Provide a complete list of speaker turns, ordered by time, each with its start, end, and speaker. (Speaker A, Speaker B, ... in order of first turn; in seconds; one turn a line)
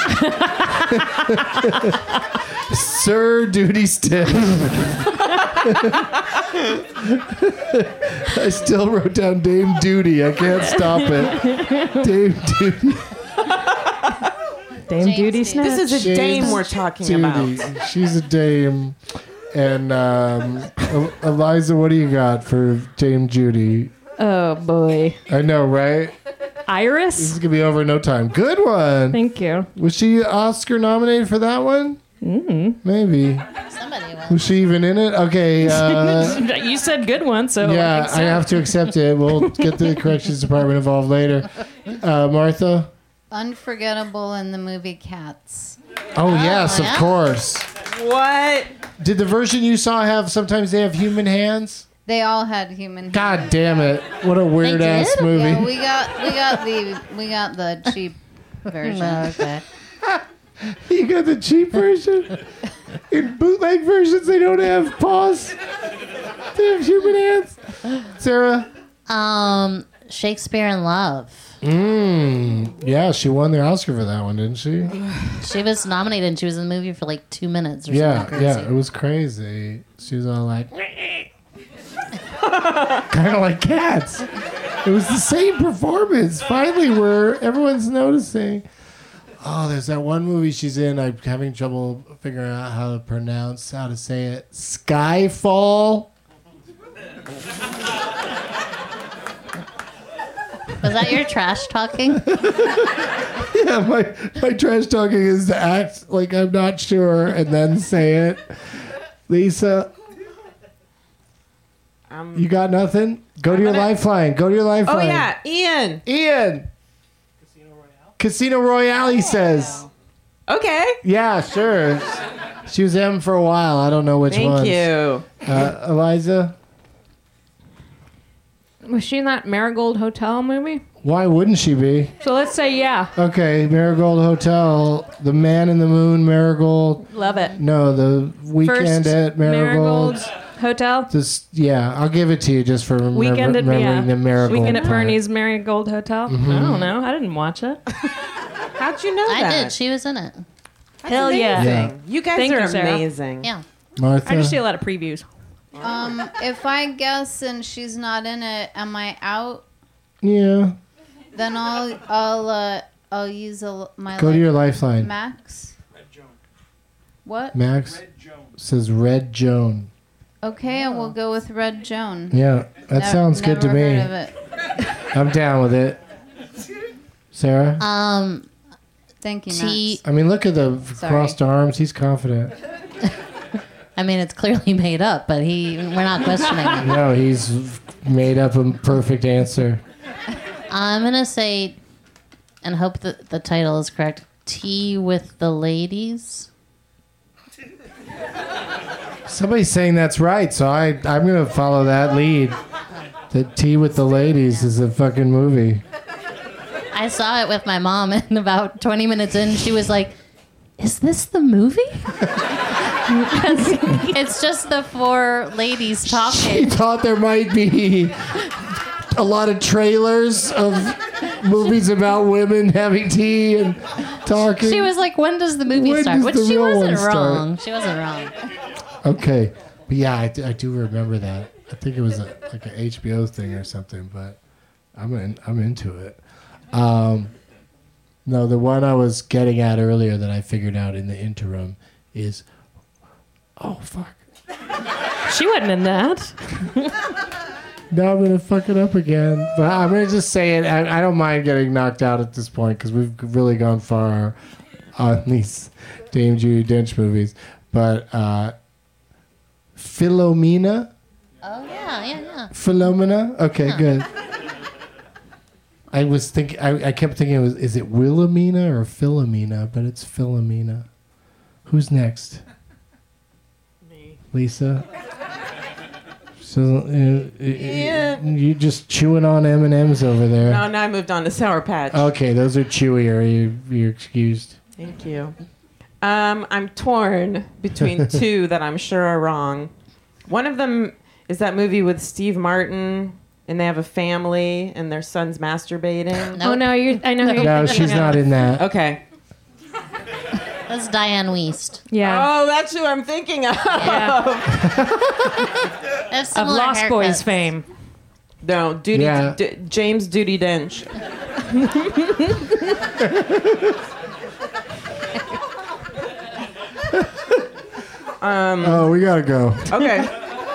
Speaker A: 0.2-0.8
Speaker B: 0.9-13.1
Speaker A: 10.5-12.1
Speaker A: 14.9-16.6
Speaker C: 15.0-15.6
Speaker D: 15.6-17.7
Speaker B: 15.9-19.0
Speaker B: 19.5-23.9
Speaker A: 24.2-25.2
Speaker B: 25.3-26.1
Speaker A: 26.7-27.4
Speaker B: 27.1-29.2
Speaker A: 29.1-29.7
Speaker B: 29.7-32.0
Speaker A: 32.2-32.8
Speaker B: 32.8-33.5
Speaker C: 33.7-34.4
Speaker B: 34.3-36.4
Speaker A: 35.6-38.7
Speaker B: 37.6-42.9
Speaker E: 43.3-45.8
Speaker B: 46.1-47.7
Speaker C: 46.3-47.1
Speaker D: 47.9-48.7
Speaker B: 49.0-51.9
Speaker E: 52.0-53.6
Speaker B: 53.1-55.7
Speaker C: 54.6-55.3
Speaker E: 55.3-59.5
Speaker C: 58.8-59.6
Speaker B: 60.0-62.4
Speaker B: 63.1-65.6
Speaker B: 66.5-68.7
Speaker C: 69.1-71.5
Speaker B: 71.6-75.0
Speaker C: 75.3-78.7
Speaker B: 77.9-81.3
Speaker B: 83.0-84.3
Speaker B: 84.8-88.7
Speaker B: 89.4-96.1
Speaker C: 100.8-102.3
Speaker B: 102.2-108.5
Speaker B: 109.3-109.9
Speaker D: 112.1-112.5
Speaker B: 112.3-115.3
Speaker D: 113.5-113.9
Speaker D: 114.8-116.0
Speaker B: 116.0-116.7
Speaker B: 118.2-119.9
Speaker D: 120.5-121.0
Speaker B: 121.0-126.5
Speaker D: 124.3-125.4
Speaker A: 128.8-130.8
Speaker B: 131.0-132.1
Speaker A: 132.2-133.1
Speaker B: 133.2-137.0
Speaker A: 137.1-137.6
Speaker C: 137.3-137.6
Speaker B: 137.6-140.2
Speaker A: 138.6-141.1
Speaker B: 141.1-145.2
Speaker A: 143.1-147.8
Speaker D: 144.5-144.9
Speaker B: 146.3-146.9
Speaker D: 148.8-149.8
Speaker C: 149.2-150.4
Speaker D: 151.0-153.5
Speaker A: 151.1-153.1
Speaker B: 151.6-151.9
Speaker B: 154.0-154.6
Speaker A: 154.2-155.3
Speaker D: 155.8-156.1
Speaker E: 155.8-159.6
Speaker B: 160.2-160.8
Speaker E: 161.3-165.7
Speaker B: 164.1-165.1
Speaker E: 167.2-167.6
Speaker B: 167.5-169.9
Speaker E: 170.4-172.4
Speaker C: 170.8-171.1
Speaker B: 172.3-174.1
Speaker E: 172.9-174.3
Speaker B: 175.1-176.0
Speaker B: 177.3-177.8
Speaker C: 177.8-178.5
Speaker E: 179.2-180.0
Speaker C: 179.5-180.0
Speaker B: 180.0-182.6
Speaker E: 181.0-181.4
Speaker C: 183.9-187.0
Speaker B: 186.7-189.8
Speaker C: 190.7-191.8
Speaker C: 192.6-196.5
Speaker B: 199.2-202.6
Speaker B: 203.3-205.8
Speaker C: 206.9-210.1
Speaker C: 210.8-212.2
Speaker A: 213.2-214.2
Speaker C: 213.8-216.7
Speaker B: 216.1-224.9
Speaker C: 224.6-228.3
Speaker B: 225.7-227.4
Speaker B: 229.0-234.4
Speaker B: 234.9-236.2
Speaker B: 236.7-237.3
Speaker B: 238.2-242.4
Speaker B: 243.6-244.2
Speaker A: 245.3-246.9
Speaker B: 247.9-254.3
Speaker B: 255.0-258.5
Speaker B: 259.8-260.9
Speaker C: 261.4-262.5
Speaker B: 262.5-264.1
Speaker B: 265.9-270.9
Speaker B: 271.6-272.4
Speaker D: 273.9-274.2
Speaker B: 274.3-274.9
Speaker B: 276.4-280.6
Speaker D: 277.6-278.2
Speaker D: 280.4-282.1
Speaker B: 281.9-284.6
Speaker D: 284.8-285.4
Speaker D: 286.0-289.7
Speaker D: 290.3-296.4
Speaker C: 296.3-298.1
Speaker A: 296.4-298.3
Speaker B: 297.4-298.6
Speaker D: 298.5-299.0
Speaker C: 300.7-301.8
Speaker A: 301.9-302.3
Speaker D: 302.0-304.6
Speaker A: 303.8-304.2
Speaker C: 303.8-304.1
Speaker B: 304.5-305.5
Speaker C: 306.1-307.4
Speaker A: 306.3-307.6
Speaker D: 308.4-310.9
Speaker B: 308.9-309.4
Speaker A: 311.6-312.4
Speaker B: 313.0-313.7
Speaker B: 317.0-317.3
Speaker D: 318.2-318.9
Speaker B: 318.6-320.1
Speaker D: 319.7-320.2